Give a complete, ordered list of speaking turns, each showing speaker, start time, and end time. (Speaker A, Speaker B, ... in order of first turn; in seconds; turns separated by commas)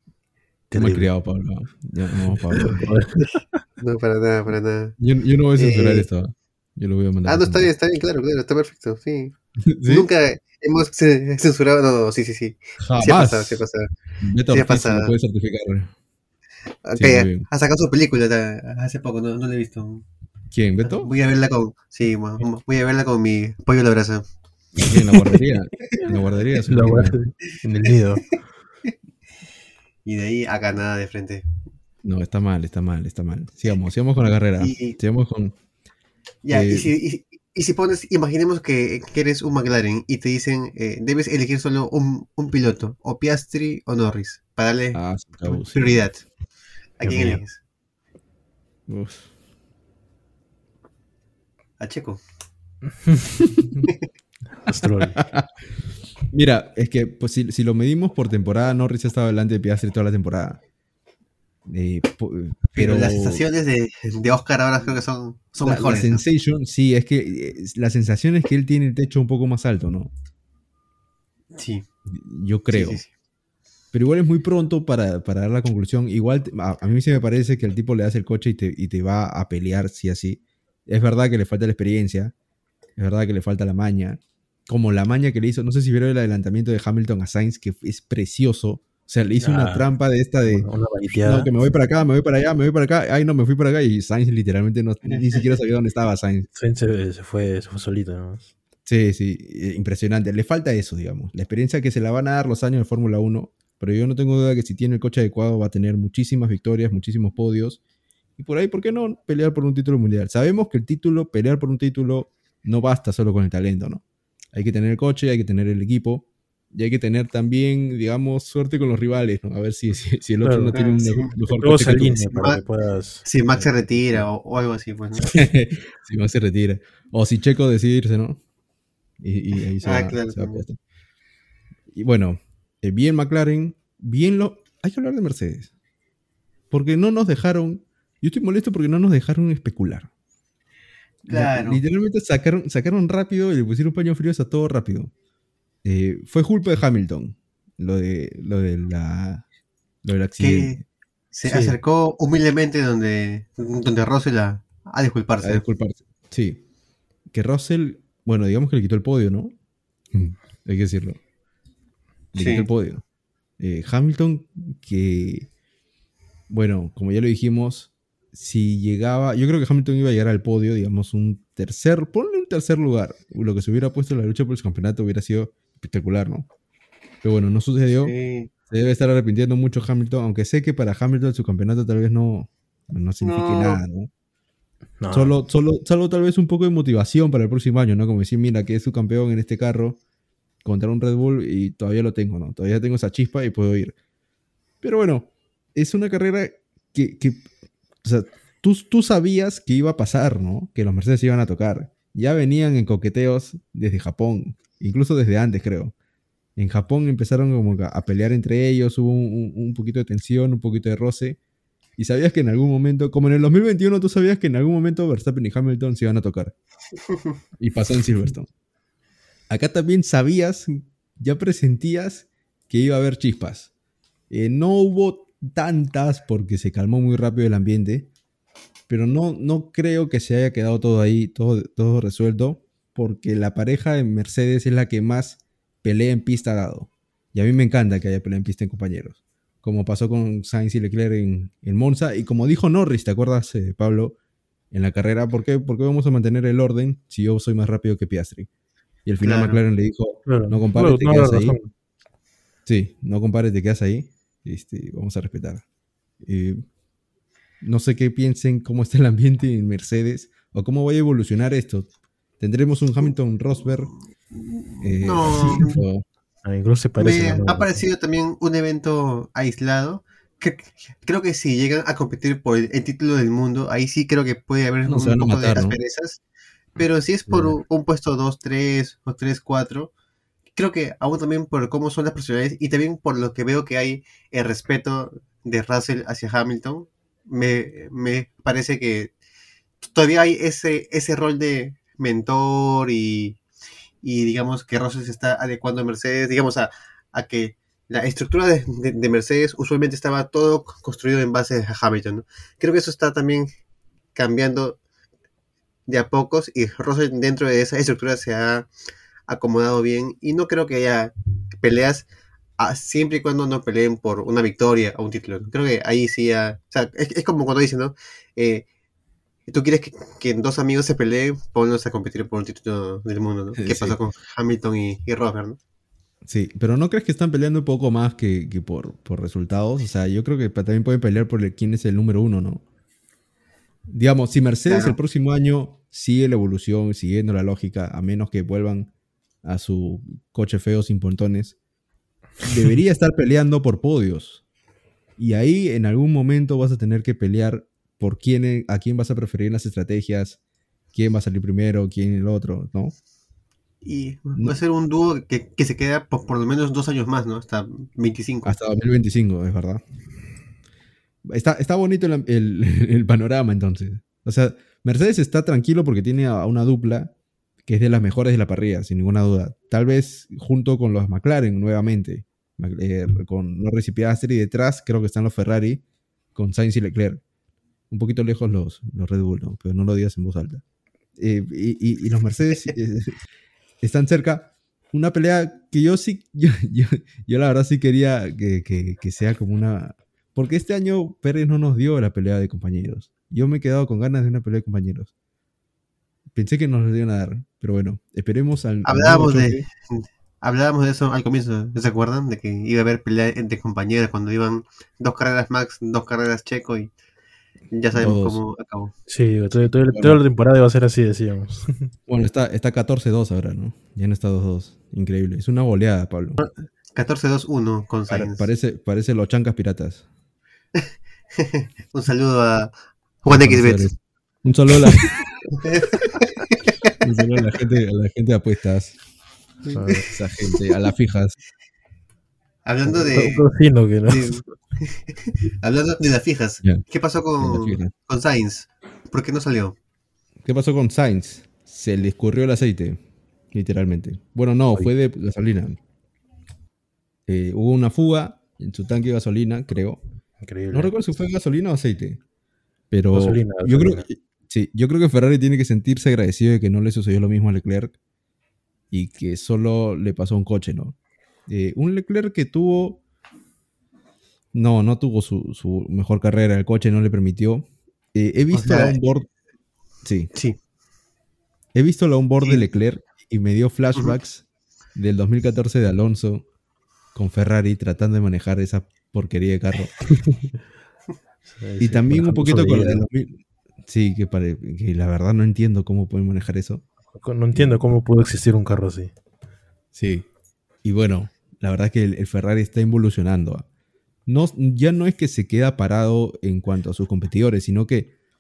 Speaker A: 0.7-1.1, Speaker B: 0.7-2.9, Speaker A: 2.2-3.5, Speaker C: 3.8-5.0, Speaker B: 5.0-7.7, Speaker C: 5.5-6.1, Speaker C: 7.2-9.3, Speaker B: 9.7-10.1, Speaker C: 9.9-13.9, Speaker B: 12.8-13.6, Speaker B: 14.2-15.9, Speaker C: 14.5-15.1, Speaker C: 16.8-20.0, Speaker B: 16.9-17.5, Speaker B: 20.5-21.1, Speaker C: 20.8-24.2, Speaker B: 24.9-27.2, Speaker A: 26.7-28.4, Speaker C: 30.1-31.4, Speaker B: 32.0-35.5, Speaker C: 34.6-35.0, Speaker C: 36.4-46.2, Speaker B: 36.5-36.9, Speaker B: 44.9-46.1, Speaker C: 47.0-47.6, Speaker A: 47.0-47.4, Speaker B: 48.9-49.3, Speaker C: 51.8-52.2, Speaker A: 53.1-53.9, Speaker A: 54.6-55.2, Speaker B: 54.7-55.5, Speaker B: 56.3-60.6, Speaker B: 61.7-63.4, Speaker C: 62.7-66.2, Speaker B: 65.6-70.1, Speaker C: 71.5-71.8, Speaker B: 72.1-73.0, Speaker C: 72.7-73.1, Speaker B: 73.9-82.3, Speaker B: 83.0-96.5, Speaker A: 89.4-89.8, Speaker A: 90.5-91.5, Speaker A: 96.5-98.5, Speaker B: 98.8-107.8, Speaker B: 108.4-122.3, Speaker A: 120.4-120.7, Speaker C: 120.7-121.3, Speaker A: 121.5-123.7, Speaker C: 122.3-122.6, Speaker C: 123.2-125.4, Speaker B: 125.3-128.4, Speaker B: 129.2-130.8, Speaker C: 129.8-130.6, Speaker B: 131.9-135.7, Speaker B: 136.7-140.1, Speaker C: 141.3-141.8, Speaker B: 141.3-145.1, Speaker B: 145.8-149.4, Speaker B: 150.0-150.8, Speaker C: 150.4-150.8, Speaker C: 151.3-155.6, Speaker A: 151.4-151.7, Speaker B: 155.4-156.6, Speaker B: 157.3-159.5, Speaker B: 160.1-161.2, Speaker B: 162.3-163.0, Speaker C: 162.3-162.7, Speaker B: 163.6-165.5, Speaker B: 166.5-176.5, Speaker B: 177.2-178.1, Speaker C: 178.0-178.5, Speaker B: 178.7-184.1, Speaker C: 183.2-183.8, Speaker A: 185.0-185.3, Speaker B: 185.1-190.0, Speaker B: 190.6-193.9, Speaker B: 194.8-197.5, Speaker B: 198.0-205.9, Speaker B: 206.6-211.4, Speaker B: 212.0-216.5, Speaker B: 217.6-218.5, Speaker B: 219.5-223.7, Speaker B: 224.3-228.1, Speaker B: 228.9-244.2, Speaker B: 244.7-248.5, Speaker B: 249.0-251.6, Speaker C: 249.2-249.6, Speaker A: 250.3-251.7, Speaker B: 252.7-255.6, Speaker B: 256.2-256.6, Speaker B: 257.6-261.9, Speaker B: 262.4-263.9, Speaker C: 264.3-265.8, Speaker B: 264.8-266.0, Speaker A: 266.4-267.8, Speaker C: 267.0-276.2, Speaker B: 274.8-275.8, Speaker C: 276.8-279.9, Speaker B: 277.3-277.6, Speaker C: 280.6-289.1, Speaker C: 289.8-293.4, Speaker C: 294.0-303.5, Speaker C: 304.1-304.8, Speaker C: 305.9-308.7, Speaker C: 309.3-312.1, Speaker C: 312.6-318.6, Speaker C: 319.5-325.6, Speaker B: 323.6-324.0, Speaker B: 326.2-332.6, Speaker B: 333.9-338.9, Speaker C: 334.6-335.0, Speaker B: 339.4-341.6, Speaker B: 342.4-344.4, Speaker B: 345.2-350.4, Speaker B: 350.9-352.9, Speaker C: 353.8-358.6, Speaker B: 358.4-359.8, Speaker B: 361.2-367.1, Speaker B: 367.6-375.8, Speaker B: 376.3-377.2, Speaker B: 377.9-380.6, Speaker B: 381.2-383.1, Speaker B: 383.8-395.1, Speaker B: 396.3-399.6, Speaker C: 398.8-406.9, Speaker C: 407.7-408.9, Speaker B: 407.9-408.4, Speaker A: 409.1-411.9, Speaker B: 409.5-410.2, Speaker B: 412.1-416.4, Speaker C: 416.4-418.5, Speaker B: 418.1-420.0, Speaker C: 421.4-422.7, Speaker C: 423.2-423.9, Speaker B: 423.2-425.4, Speaker C: 425.6-426.9, Speaker B: 427.0-429.0, Speaker C: 429.6-430.1, Speaker A: 429.7-430.1, Speaker B: 430.1-431.4, Speaker C: 432.6-433.4, Speaker A: 432.9-434.5, Speaker C: 434.1-439.8, Speaker B: 437.4-437.9, Speaker B: 440.4-443.0, Speaker B: 443.5-445.8, Speaker B: 447.3-450.0, Speaker A: 450.4-450.9, Speaker B: 450.7-452.2, Speaker B: 452.9-457.9, Speaker A: 453.1-454.1, Speaker B: 458.9-463.0, Speaker B: 464.5-469.3, Speaker C: 468.5-468.9, Speaker B: 470.0-470.3, Speaker B: 471.7-474.4, Speaker B: 474.9-476.4, Speaker B: 477.1-479.9, Speaker A: 481.6-483.0, Speaker B: 481.8-486.8, Speaker A: 487.1-489.1, Speaker B: 487.5-487.8, Speaker B: 489.9-490.3, Speaker B: 490.8-493.6, Speaker B: 494.2-498.1